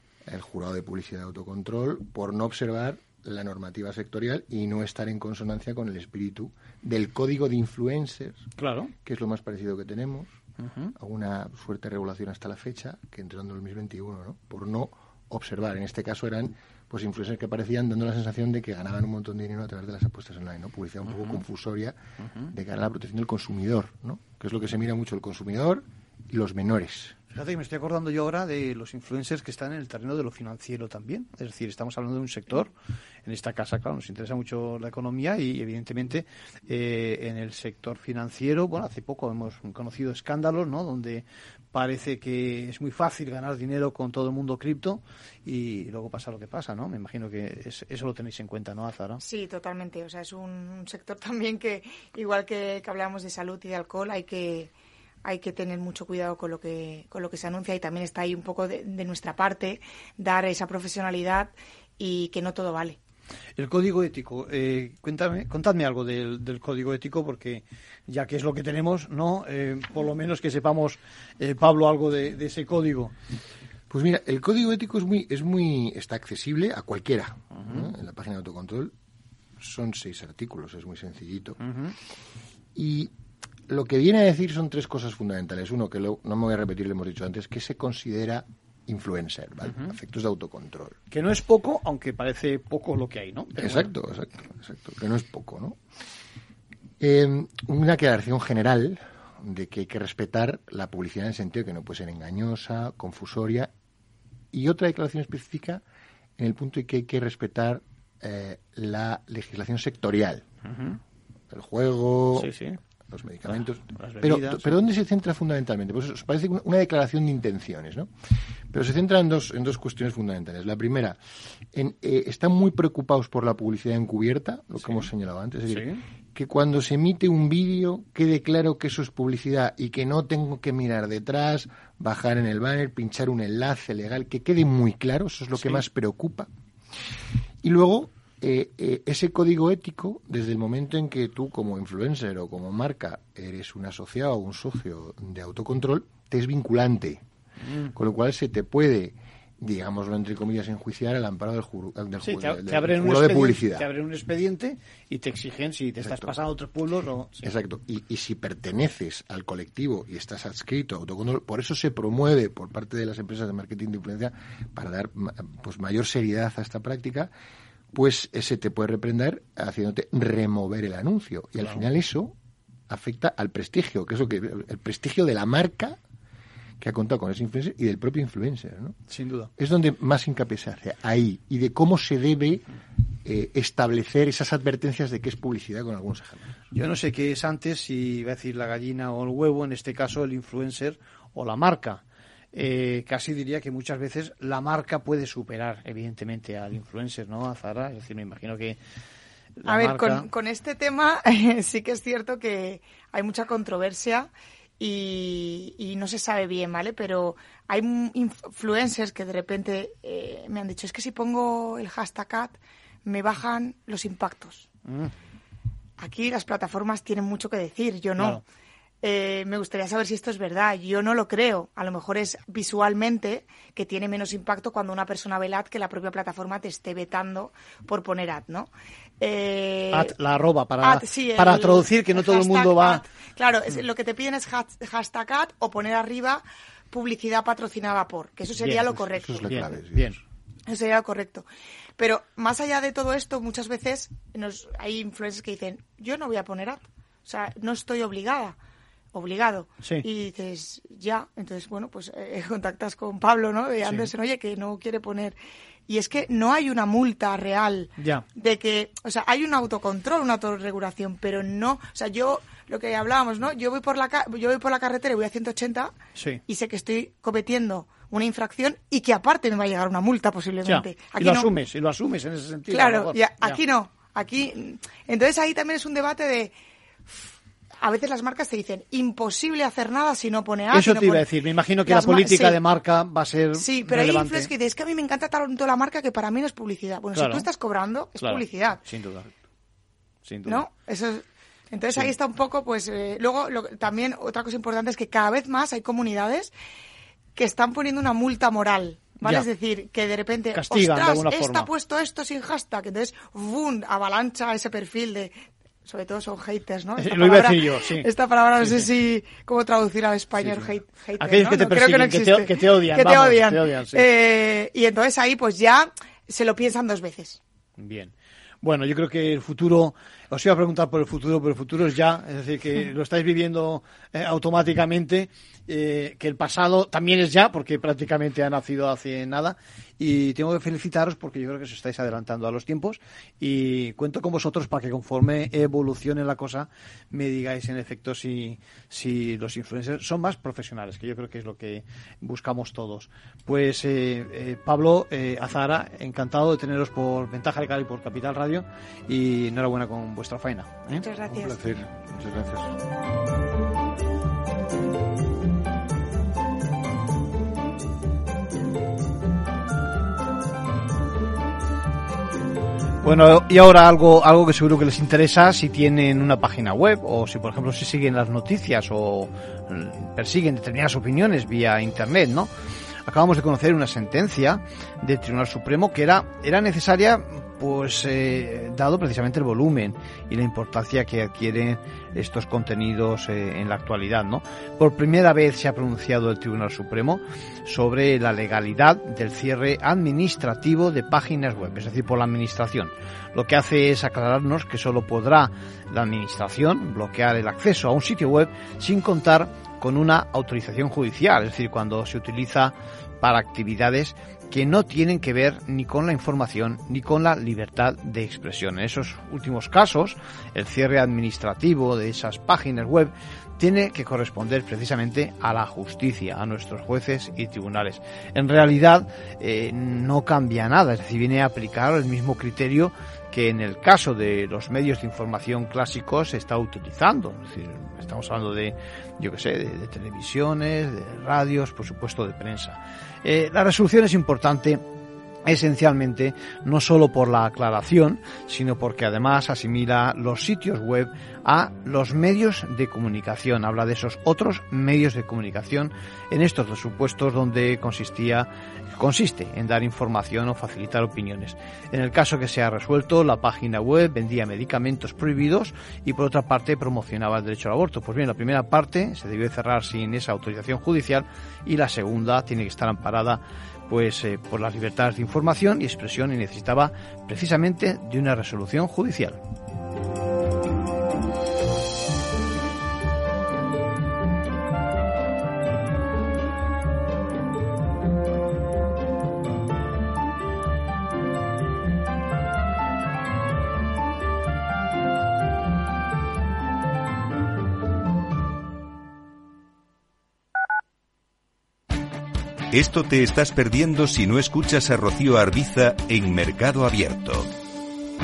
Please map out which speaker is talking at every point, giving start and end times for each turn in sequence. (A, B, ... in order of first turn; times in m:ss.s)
0:00.2-0:10.4 A
0:08.6-0:08.9 B
0:10.6-0:10.9 B
0:11.0-0:22.0 A
0:21.0-0:21.4 B
0:22.2-0:22.5 B
0:22.5-0:27.2 A
0:27.3-0:32.7 B
0:33.2-0:49.2 B
0:49.2-0:54.7 C
0:55.2-1:03.0 C
1:03.6-1:13.1 B
1:13.9-1:18.9 A
1:17.5-1:17.9 B
1:19.6-1:21.6 A
1:21.6-1:21.9 B
1:22.7-1:23.1 A
1:23.7-1:31.0 A
1:29.6-1:29.9 B
1:31.1-1:33.9 B
1:33.6-1:35.8 A
1:37.0-1:43.7 A
1:44.5-1:45.8 A
1:46.4-1:50.4 A
1:50.6-1:51.0 B
1:51.5-1:52.5 A
1:52.3-1:52.8 B
1:53.1-1:58.1 A
1:53.5-1:54.8 B
1:58.7-2:01.2 A
2:01.7-2:16.5 A
2:04.8-2:05.1 B
2:05.7-2:06.0 B
2:15.5-2:15.8 B
2:17.6-2:27.2 A
2:27.6-2:27.9 B
2:27.9-2:33.9 A
2:32.2-2:37.5 B
2:36.0-2:36.3 A
2:37.4-2:47.3 A
2:47.9-2:52.3 A
2:51.6-2:51.8 B
2:52.9-2:56.0 A
2:56.8-2:59.0 A
2:59.1-2:59.5 B
2:59.6-3:02.6 A
3:03.2-3:06.6 A
3:06.7-3:18.8 B
3:19.6-3:20.3 B
3:19.6-3:34.7 C
3:34.8-3:35.1 B
3:36.0-3:38.4 C
3:38.2-3:38.4 B
3:39.0-3:48.7 C
3:49.2-3:50.1 C
3:49.9-3:53.0 B
3:50.8-3:59.4 C
3:58.5-4:00.2 B
3:59.2-4:00.2 A
4:00.7-4:01.4 C
4:02.0-4:08.6 C
4:09.1-4:15.4 C
4:13.8-4:14.1 B
4:15.9-4:25.9 C
4:18.0-4:18.2 B
4:26.2-4:26.4 B
4:26.5-4:31.5 C
4:30.6-4:33.6 B
4:32.7-4:36.5 C
4:37.8-4:41.2 C
4:40.7-4:44.5 B
4:41.8-4:42.6 C
4:43.5-4:48.8 C
4:47.1-4:47.5 B
4:48.2-4:49.3 B
4:50.2-4:50.6 B
4:50.4-4:56.5 C
4:57.4-5:05.3 C
4:59.2-4:59.5 B
5:00.5-5:01.7 B
5:05.8-5:17.4 C
5:07.0-5:08.9 B
5:10.3-5:14.0 B
5:17.8-5:51.1 B
5:51.0-5:51.7 C
5:51.3-5:52.7 A
6:03.0-6:12.5 B
6:13.0-7:14.8 B
7:15.4-7:49.4 B
8:12.7-8:17.5 D